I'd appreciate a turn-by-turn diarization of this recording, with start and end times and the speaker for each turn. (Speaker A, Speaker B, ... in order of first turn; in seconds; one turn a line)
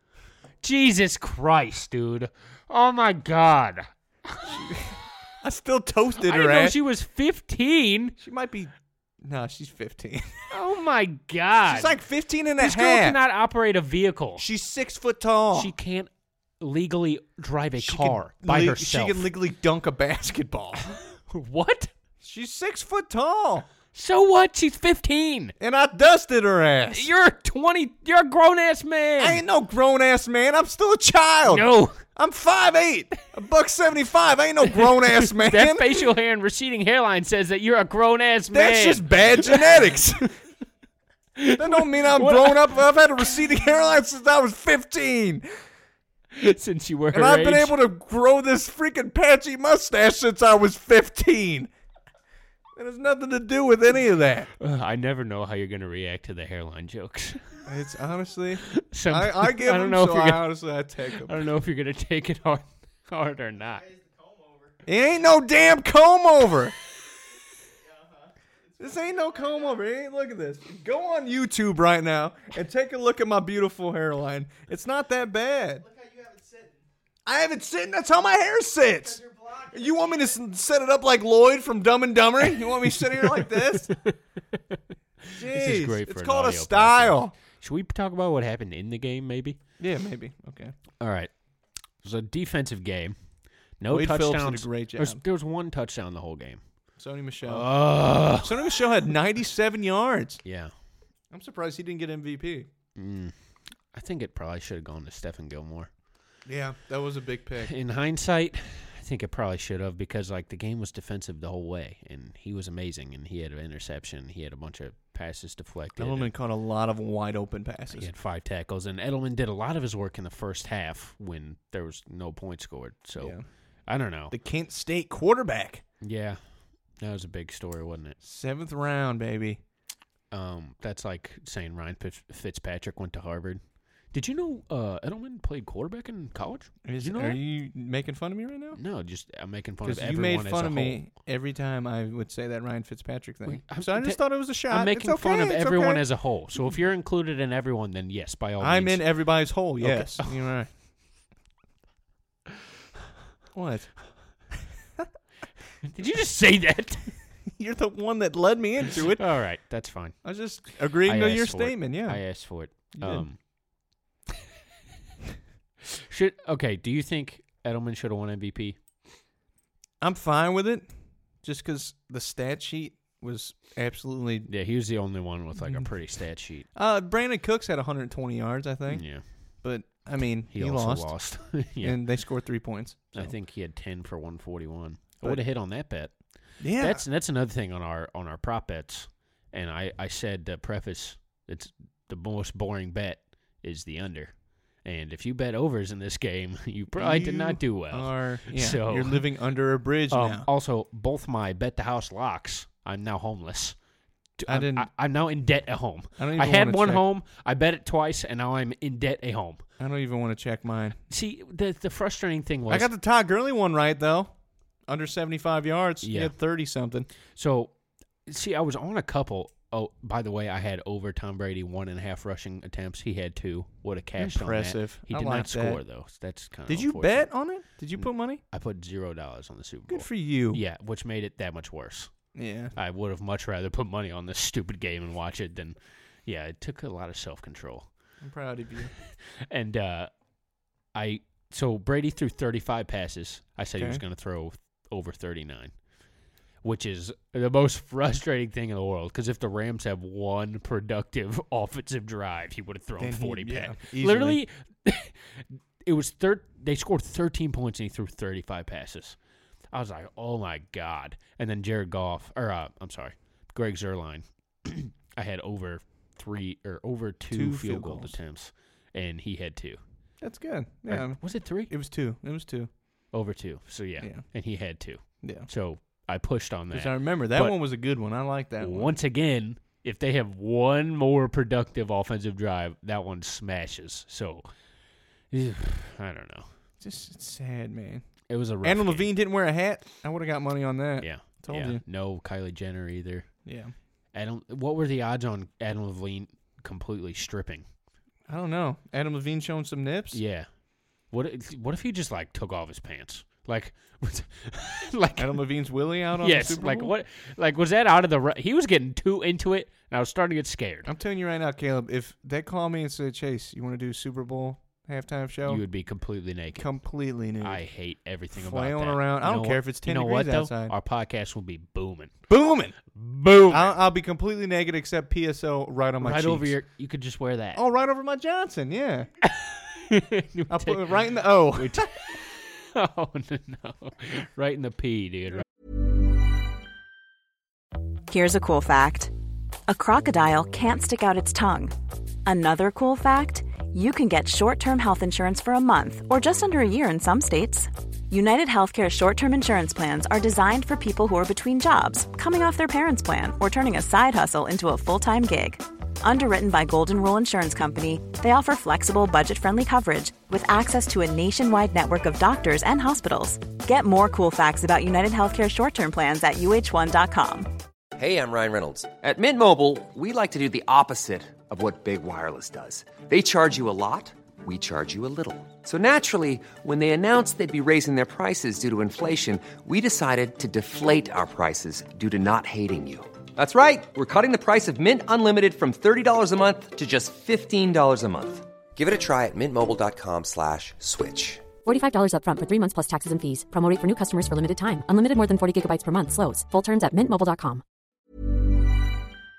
Speaker A: 0.6-4.5
Speaker B: 4.5-6.8
Speaker A: 6.2-8.2
Speaker B: 8.2-8.7
Speaker B: 9.2-10.4
Speaker A: 10.5-11.9
Speaker B: 11.7-13.2
Speaker A: 12.6-14.4
Speaker B: 14.4-15.7
Speaker A: 15.5-19.3
Speaker B: 17.8-20.9
Speaker A: 20.9-21.9
Speaker B: 22.2-23.6
Speaker A: 23.9-25.5
Speaker B: 25.6-27.1
Speaker A: 26.9-29.4
Speaker B: 29.2-36.0
Speaker A: 31.4-32.0
Speaker A: 34.7-40.1
Speaker B: 38.5-40.3
Speaker A: 41.4-42.8
Speaker B: 41.5-45.5
Speaker A: 46.3-47.8
Speaker B: 47.1-51.7
Speaker B: 52.8-54.5
Speaker A: 54.6-57.6
Speaker B: 57.6-61.5
Speaker A: 58.6-60.5
Speaker A: 61.1-63.9
Speaker B: 64.8-66.7
Speaker B: 68.8-75.9
Speaker B: 77.2-83.9
Speaker A: 82.6-84.8
Speaker A: 85.3-89.6
Speaker B: 85.3-87.3
Speaker B: 89.8-90.7
Speaker A: 91.0-91.3
Speaker A: 92.0-93.2
Speaker A: 93.8-96.6
Speaker B: 93.9-95.2
Speaker B: 97.0-97.7
Speaker A: 97.5-98.8
Speaker B: 98.2-100.4
Speaker A: 100.4-100.7
Speaker B: 101.3-102.7
Speaker A: 103.0-103.3
Speaker A: 103.9-105.9
Speaker B: 106.5-107.7
Speaker A: 107.6-116.3
Speaker B: 116.0-118.1
Speaker A: 118.0-123.3
Speaker B: 123.2-123.4
Speaker A: 123.9-124.3
Speaker B: 124.3-125.8
Speaker A: 126.0-126.4
Speaker A: 127.0-128.2
Speaker B: 128.2-129.6
Speaker A: 130.3-133.6
Speaker A: 134.1-137.4
Speaker B: 136.8-138.8
Speaker A: 138.7-141.0
Speaker B: 139.8-146.0
Speaker A: 143.4-149.0
Speaker B: 148.6-150.7
Speaker A: 149.8-150.4
Speaker B: 153.5-153.9
Speaker A: 155.8-157.2
Speaker B: 157.6-159.2
Speaker A: 159.0-160.2
Speaker B: 160.2-162.2
Speaker A: 160.9-163.4
Speaker B: 162.9-163.2
Speaker A: 165.8-168.8
Speaker B: 170.0-170.9
Speaker B: 171.4-174.5
Speaker A: 174.5-176.7
Speaker B: 175.6-175.9
Speaker B: 176.8-179.0
Speaker A: 178.9-179.2
Speaker B: 179.6-181.1
Speaker A: 180.5-182.0
Speaker B: 181.8-183.3
Speaker A: 183.1-186.1
Speaker B: 186.6-187.0
Speaker A: 186.8-194.3
Speaker A: 194.8-199.2
Speaker B: 196.9-200.4
Speaker A: 200.1-203.8
Speaker A: 204.4-209.6
Speaker B: 204.5-204.9
Speaker B: 206.2-207.0
Speaker B: 209.8-211.0
Speaker A: 211.1-212.9
Speaker B: 212.7-214.3
Speaker B: 214.9-217.1
Speaker A: 216.0-216.3
Speaker A: 217.3-217.7
Speaker A: 218.2-227.3
Speaker B: 224.2-225.8
Speaker B: 226.7-228.4
Speaker A: 228.5-232.1
Speaker B: 229.9-230.6
Speaker B: 232.3-232.7
Speaker A: 232.8-237.9
Speaker B: 238.2-238.9
Speaker A: 239.0-240.1
Speaker A: 240.9-245.7
Speaker A: 246.6-259.2
Speaker B: 253.0-254.4
Speaker A: 259.7-269.8
Speaker B: 267.3-268.1
Speaker B: 270.2-272.7
Speaker A: 270.9-271.7
Speaker A: 273.1-277.6
Speaker B: 275.2-275.5
Speaker B: 276.7-278.9
Speaker A: 278.6-284.5
Speaker A: 285.3-286.5
Speaker B: 286.8-288.1
Speaker A: 288.3-289.1
Speaker B: 288.6-291.8
Speaker A: 291.0-293.3
Speaker B: 293.4-293.7
Speaker A: 294.1-297.6
Speaker B: 298.3-300.2
Speaker A: 300.1-300.5
Speaker A: 301.1-305.4
Speaker B: 305.2-306.9
Speaker A: 306.2-310.9
Speaker B: 310.9-315.6
Speaker A: 315.5-316.7
Speaker B: 316.5-317.6
Speaker A: 317.4-322.1
Speaker B: 318.4-320.7
Speaker B: 322.3-322.8
Speaker A: 322.9-323.8
Speaker B: 323.5-326.6
Speaker A: 326.0-327.6
Speaker B: 327.5-329.1
Speaker A: 329.2-335.4
Speaker B: 330.5-331.9
Speaker C: 338.1-339.1
Speaker C: 339.7-341.7
Speaker C: 342.2-367.5
Speaker D: 368.0-391.5
Speaker E: 391.6-397.6